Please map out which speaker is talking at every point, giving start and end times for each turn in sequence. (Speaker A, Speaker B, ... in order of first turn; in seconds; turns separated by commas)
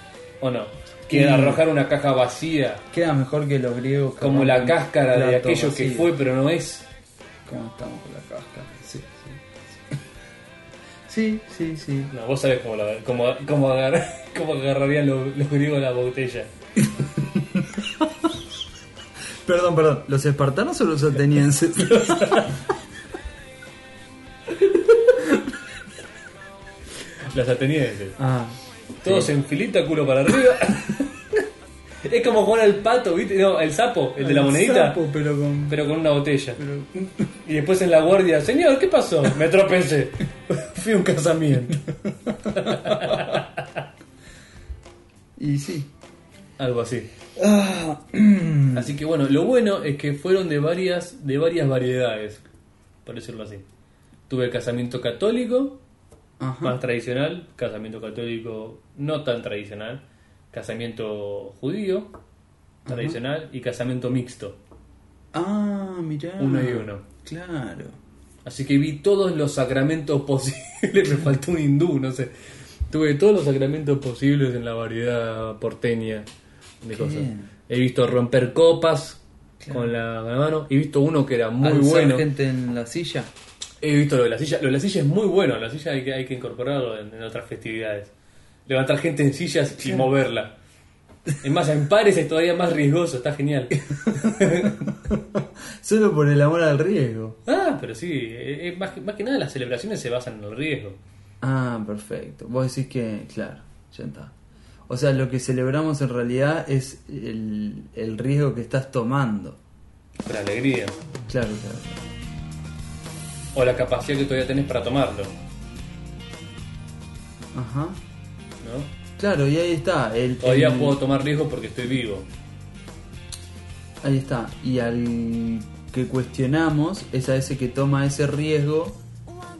Speaker A: 0.4-2.8, Speaker B: 1.1-1.6, Speaker B: 2.9-6.1, Speaker A: 4.2-6.9, Speaker B: 7.5-9.4, Speaker B: 11.1-12.1, Speaker A: 12.1-16.5, Speaker B: 16.8-18.3, Speaker B: 19.4-22.5, Speaker A: 21.9-22.5, Speaker A: 24.6-25.1, Speaker A: 27.3-28.2, Speaker B: 28.2-29.3, Speaker A: 29.0-31.4, Speaker A: 32.0-35.0, Speaker B: 34.2-35.8, Speaker A: 35.7-36.6, Speaker B: 36.6-37.3, Speaker A: 37.4-41.8, Speaker A: 42.4-43.8, Speaker B: 42.6-43.2, Speaker B: 45.4-45.9, Speaker A: 46.6-47.1, Speaker B: 47.4-48.9, Speaker A: 48.7-52.4, Speaker A: 53.0-53.6, Speaker A: 54.3-55.8, Speaker B: 56.4-56.8, Speaker A: 56.6-62.1, Speaker B: 62.9-63.2, Speaker A: 62.9-64.6, Speaker B: 65.3-68.0, Speaker A: 66.4-67.0, Speaker A: 68.4-72.3, Speaker A: 72.9-76.3, Speaker A: 76.8-82.3, Speaker B: 76.9-77.5, Speaker B: 81.6-83.3, Speaker A: 83.8-88.1, Speaker A: 88.7-90.5, Speaker A: 91.4-94.8, Speaker B: 94.1-97.4, Speaker A: 97.5-101.0, Speaker B: 101.4-104.3, Speaker B: 104.9-109.6, Speaker A: 110.2-111.0, Speaker B: 111.3-112.0, Speaker A: 113.5-115.3, Speaker B: 117.5-118.0, Speaker A: 118.6-118.9, Speaker B: 119.2-121.0, Speaker A: 120.4-122.3, Speaker B: 124.0-129.0